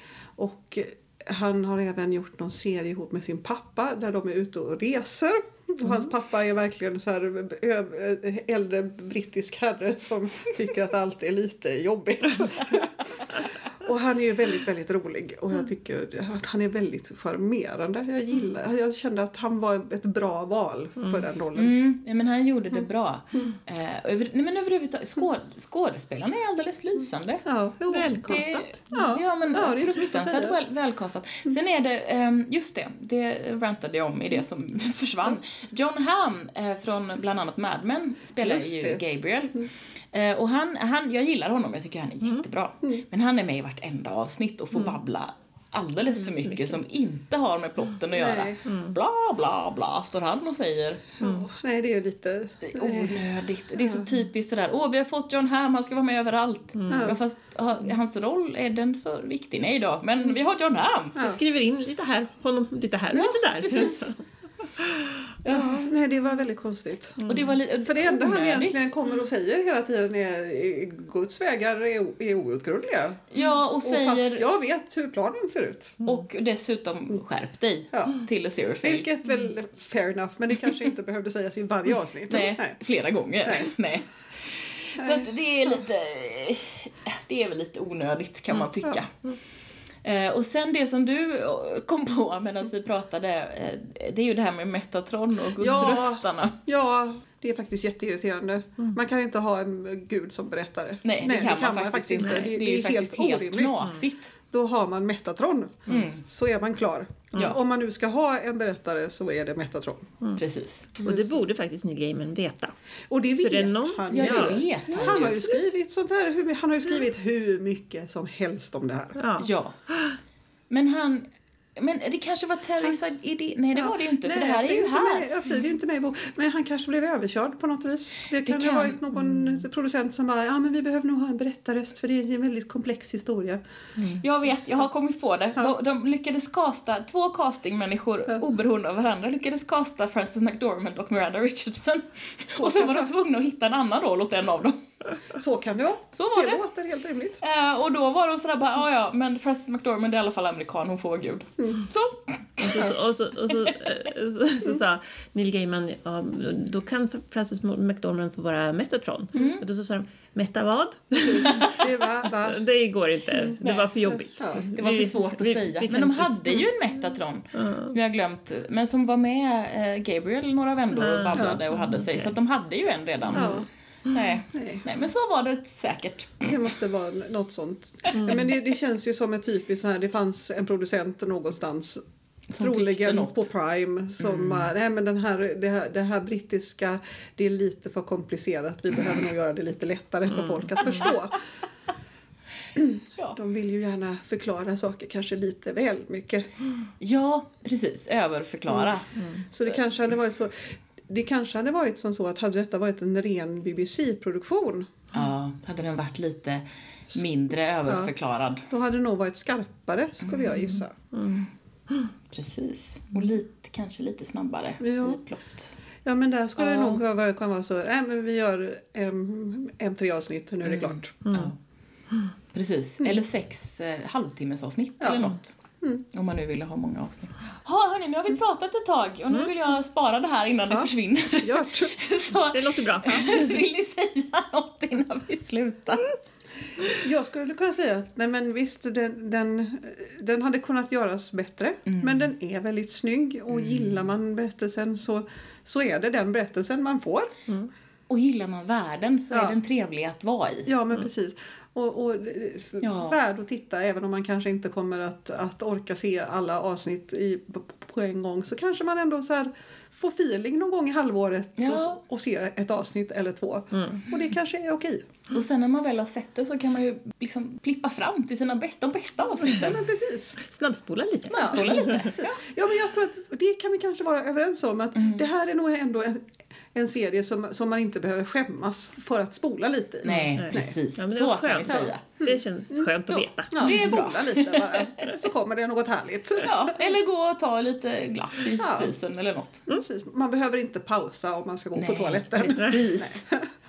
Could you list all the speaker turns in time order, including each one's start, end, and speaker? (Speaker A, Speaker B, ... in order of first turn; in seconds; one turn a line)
Speaker A: 0.4-21.7
Speaker B: 21.6-27.4
Speaker A: 27.4-28.2
Speaker C: 27.9-28.7
Speaker B: 28.3-51.0
Speaker A: 28.9-30.6
Speaker A: 38.4-39.0
Speaker C: 46.2-46.8
Speaker A: 48.1-48.7
Speaker C: 48.7-49.0
Speaker A: 51.2-53.3
Speaker C: 51.2-51.5
Speaker B: 52.6-61.2
Speaker C: 56.8-57.2
Speaker A: 56.9-57.2
Speaker C: 61.2-65.3
Speaker B: 63.1-64.0
Speaker B: 65.5-65.9
Speaker A: 65.5-67.2
Speaker C: 67.2-67.5
Speaker B: 67.2-68.8
Speaker A: 67.8-73.3
Speaker B: 73.3-74.5
Speaker A: 73.8-76.0
Speaker B: 76.0-79.1
Speaker A: 77.9-78.2
Speaker A: 78.8-82.8
Speaker B: 82.3-89.1
Speaker A: 83.5-83.7
Speaker A: 85.0-85.3
Speaker B: 90.0-96.6
Speaker A: 95.6-103.9
Speaker B: 101.0-104.3
Speaker C: 102.2-102.5
Speaker A: 104.5-110.1
Speaker B: 105.9-106.2
Speaker B: 110.4-111.0
Speaker A: 111.0-111.3
Speaker C: 111.0-112.7
Speaker A: 113.1-119.2
Speaker C: 113.4-115.2
Speaker B: 114.1-115.6
Speaker C: 119.2-120.2
Speaker B: 119.4-119.8
Speaker B: 120.7-125.3
Speaker A: 123.8-133.6
Speaker B: 128.4-129.0
Speaker C: 129.2-129.6
Speaker B: 134.2-144.9
Speaker A: 142.6-143.1
Speaker A: 145.3-147.4
Speaker B: 146.2-146.6
Speaker B: 147.4-152.9
Speaker C: 152.6-161.9
Speaker B: 153.5-153.7
Speaker B: 159.3-159.6
Speaker A: 161.2-162.6
Speaker C: 162.4-166.7
Speaker B: 163.6-176.5
Speaker A: 164.4-164.7
Speaker C: 167.5-167.9
Speaker C: 170.9-172.3
Speaker A: 171.3-171.6
Speaker C: 173.3-174.4
Speaker A: 173.3-173.7
Speaker A: 174.5-174.8
Speaker A: 176.4-182.0
Speaker C: 178.2-178.5
Speaker B: 182.5-183.5
Speaker A: 182.6-191.4
Speaker B: 184.2-184.7
Speaker A: 192.8-196.5
Speaker B: 197.0-199.1
Speaker C: 199.2-199.4
Speaker A: 199.5-205.0
Speaker B: 205.1-208.7
Speaker A: 207.9-208.1
Speaker A: 208.7-210.9
Speaker B: 210.2-210.7
Speaker C: 211.1-212.1
Speaker B: 212.3-215.7
Speaker A: 214.8-215.2
Speaker A: 216.1-221.2
Speaker B: 216.6-217.0
Speaker B: 220.7-221.6
Speaker C: 221.2-221.5
Speaker B: 222.5-225.6
Speaker B: 226.1-236.1
Speaker A: 230.7-232.0
Speaker C: 232.5-233.6
Speaker A: 236.9-247.3
Speaker B: 241.9-242.3
Speaker B: 243.5-244.0
Speaker B: 248.1-250.7
Speaker A: 249.3-249.6
Speaker A: 250.7-265.1
Speaker B: 252.8-253.2
Speaker B: 261.6-262.0
Speaker C: 263.7-264.0
Speaker B: 265.3-269.8
Speaker A: 269.4-270.4
Speaker C: 270.4-272.1
Speaker B: 271.2-272.4
Speaker A: 271.4-280.8
Speaker B: 275.0-275.3
Speaker B: 280.0-282.0
Speaker C: 280.3-284.2
Speaker A: 281.7-286.8
Speaker B: 283.6-285.2
Speaker B: 286.4-289.6
Speaker A: 288.6-288.9
Speaker A: 289.7-293.5
Speaker B: 291.8-293.3